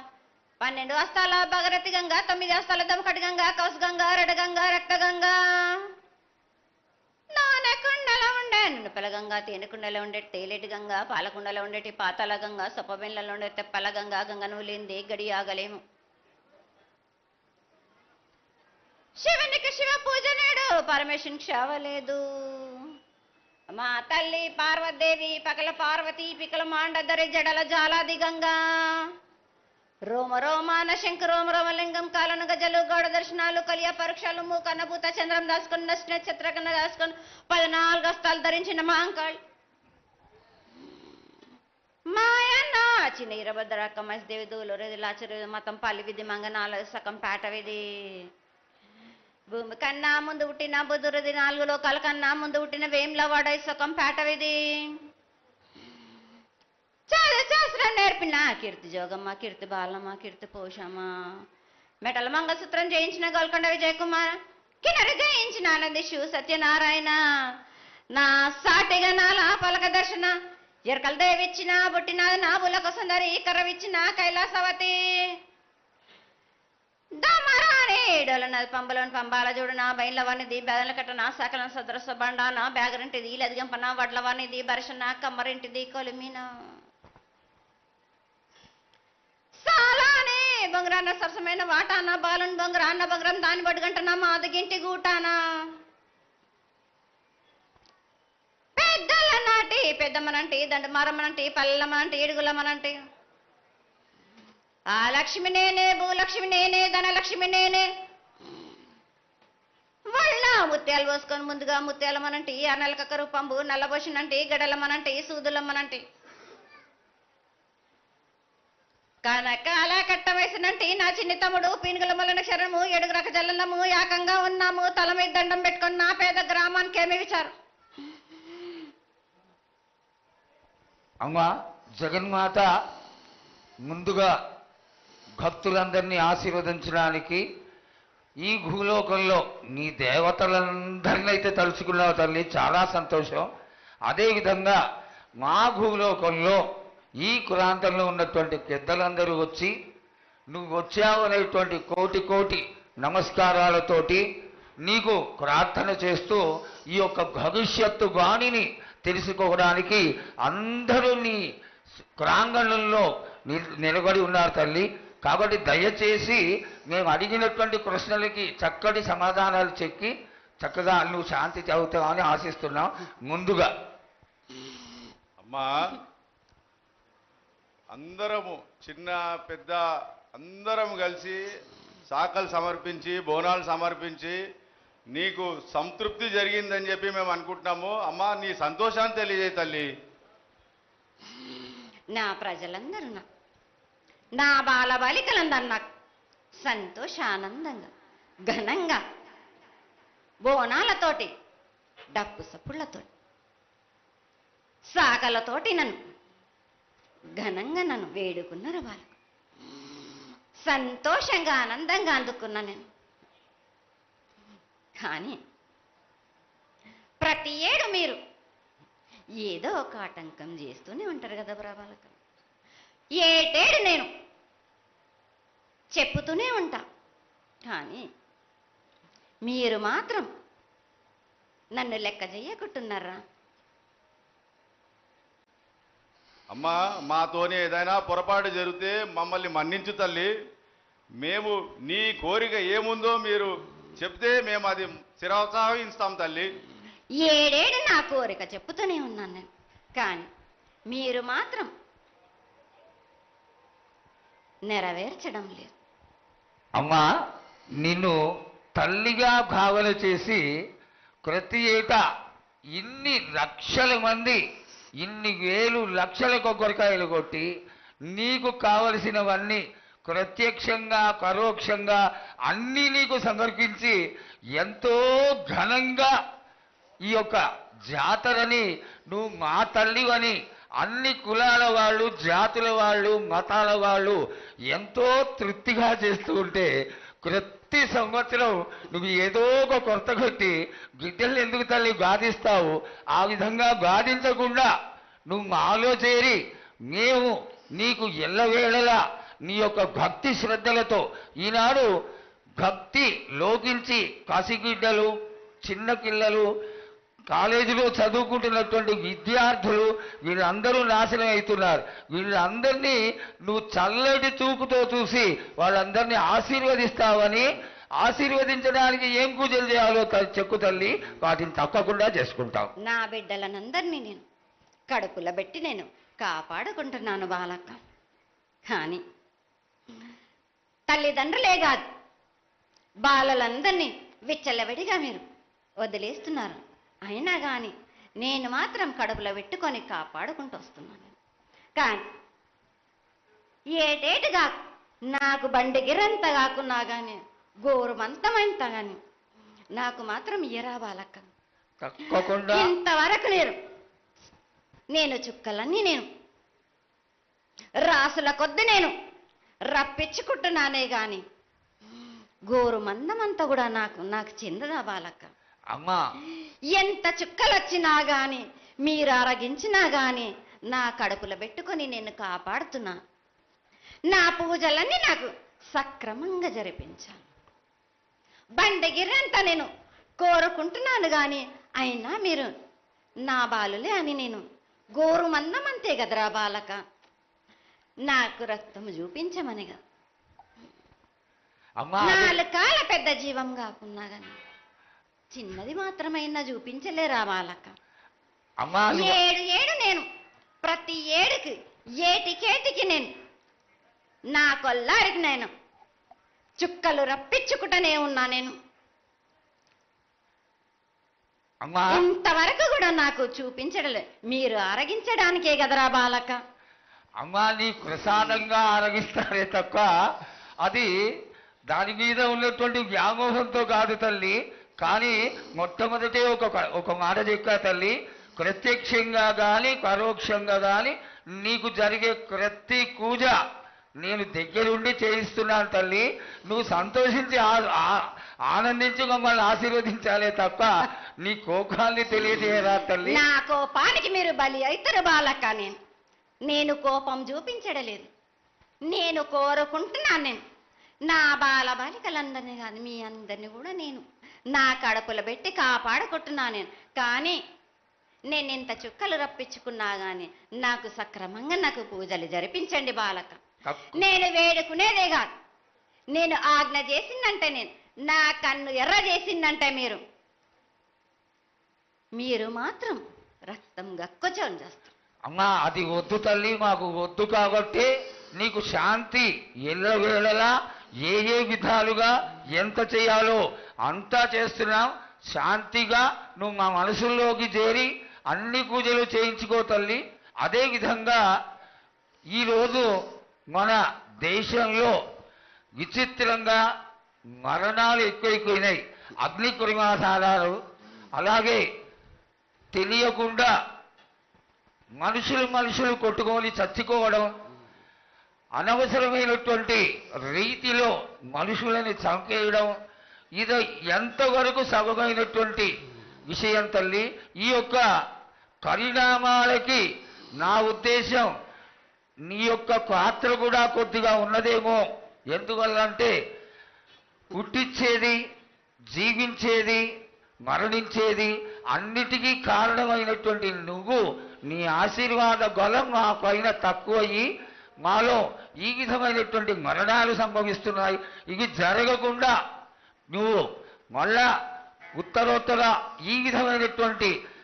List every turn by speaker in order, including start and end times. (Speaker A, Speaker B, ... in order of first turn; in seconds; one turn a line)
Speaker A: 0.6-5.8
Speaker A: 7.3-15.8
Speaker A: 19.2-22.9
Speaker A: 23.7-29.1
Speaker A: 30.1-39.4
Speaker A: 42.1-48.3
Speaker A: 49.5-55.0
Speaker A: 57.1-61.1
Speaker A: 62.0-67.2
Speaker A: 68.1-70.3
Speaker A: 70.9-75.3
Speaker A: 77.2-86.5
Speaker A: 89.6-95.4
Speaker A: 98.8-103.0
Speaker A: 104.9-107.9
Speaker A: 110.1-116.0
Speaker A: 119.2-127.5
Speaker B: 131.2-132.7
Speaker B: 133.8-134.3
Speaker B: 135.4-137.4
Speaker B: 138.4-143.5
Speaker B: 144.1-144.8
Speaker B: 145.4-146.6
Speaker B: 147.2-149.7
Speaker B: 150.5-154.2
Speaker B: 154.8-161.4
Speaker B: 162.2-173.7
Speaker C: 175.4-175.8
Speaker C: 177.9-179.8
Speaker C: 180.3-181.4
Speaker C: 182.1-184.4
Speaker C: 185.1-189.9
Speaker A: 192.1-193.2
Speaker A: 194.3-195.9
Speaker A: 196.6-197.9
Speaker A: 198.4-199.0
Speaker A: 200.4-201.3
Speaker A: 202.1-203.1
Speaker A: 204.9-206.0
Speaker A: 207.4-209.1
Speaker A: 209.7-212.8
Speaker A: 215.0-215.4
Speaker A: 217.2-218.2
Speaker A: 219.4-222.2
Speaker A: 223.2-224.1
Speaker A: 225.9-226.8
Speaker A: 227.7-228.0
Speaker A: 229.4-230.3
Speaker A: 231.7-233.2
Speaker C: 236.5-240.3
Speaker C: 241.2-246.5
Speaker A: 247.2-250.3
Speaker A: 250.9-251.7
Speaker A: 254.7-255.7
Speaker B: 256.8-257.1
Speaker B: 257.8-258.2
Speaker B: 258.8-260.4
Speaker B: 261.2-262.0
Speaker B: 262.8-264.4
Speaker B: 265.0-267.5
Speaker B: 268.1-274.0
Speaker B: 274.6-276.1
Speaker B: 277.1-284.2
Speaker B: 284.7-286.7
Speaker B: 287.2-294.7
Speaker B: 295.3-296.4
Speaker B: 296.9-301.9
Speaker B: 302.6-305.1
Speaker B: 305.6-306.4
Speaker B: 307.3-317.4
Speaker B: 318.0-322.7
Speaker A: 322.8-324.2
Speaker A: 324.9-327.8
Speaker A: 328.7-329.0
Speaker A: 330.9-331.8
Speaker A: 333.0-335.2
Speaker A: 335.8-341.1
Speaker A: 341.8-342.0
Speaker A: 343.8-344.6
Speaker A: 345.1-349.0
Speaker A: 349.8-351.3
Speaker B: 351.8-352.7
Speaker A: 352.5-353.6
Speaker A: 354.9-356.0
Speaker A: 357.8-358.9
Speaker A: 359.7-361.2
Speaker A: 362.5-365.3
Speaker B: 365.7-366.0
Speaker A: 366.7-373.0
Speaker A: 374.1-377.2
Speaker A: 378.6-379.7
Speaker A: 380.2-382.5
Speaker A: 383.2-384.4
Speaker A: 385.0-386.8
Speaker A: 388.1-389.8
Speaker B: 391.8-392.4
Speaker A: 392.0-394.4
Speaker A: 395.3-397.7
Speaker B: 398.6-399.2
Speaker A: 398.9-400.1
Speaker A: 400.6-403.1
Speaker A: 404.4-405.5
Speaker A: 406.6-408.5
Speaker B: 411.6-412.0
Speaker A: 411.9-416.4
Speaker B: 417.2-419.9
Speaker B: 420.6-420.9
Speaker B: 421.7-433.4
Speaker B: 434.0-440.7
Speaker B: 441.2-443.2
Speaker A: 443.0-445.8
Speaker A: 446.4-448.1
Speaker A: 448.9-450.4
Speaker A: 451.1-457.4
Speaker A: 458.3-463.4
Speaker B: 463.6-464.0
Speaker A: 463.9-465.3
Speaker A: 466.1-470.0
Speaker A: 472.1-474.9
Speaker B: 475.2-480.5
Speaker B: 481.0-491.2
Speaker B: 492.3-492.9
Speaker B: 493.5-494.9
Speaker B: 495.8-496.6
Speaker B: 497.4-500.6
Speaker B: 501.1-501.6
Speaker B: 502.7-503.5
Speaker B: 505.0-507.3
Speaker B: 508.6-512.7
Speaker B: 513.4-515.7
Speaker B: 516.3-517.8
Speaker B: 518.6-519.8
Speaker B: 520.4-521.3
Speaker B: 522.3-524.8
Speaker B: 525.3-526.1
Speaker B: 527.3-528.2
Speaker B: 528.9-529.8
Speaker B: 530.4-537.2
Speaker B: 537.8-542.3
Speaker B: 543.1-543.4
Speaker B: 543.9-544.3
Speaker B: 545.0-547.1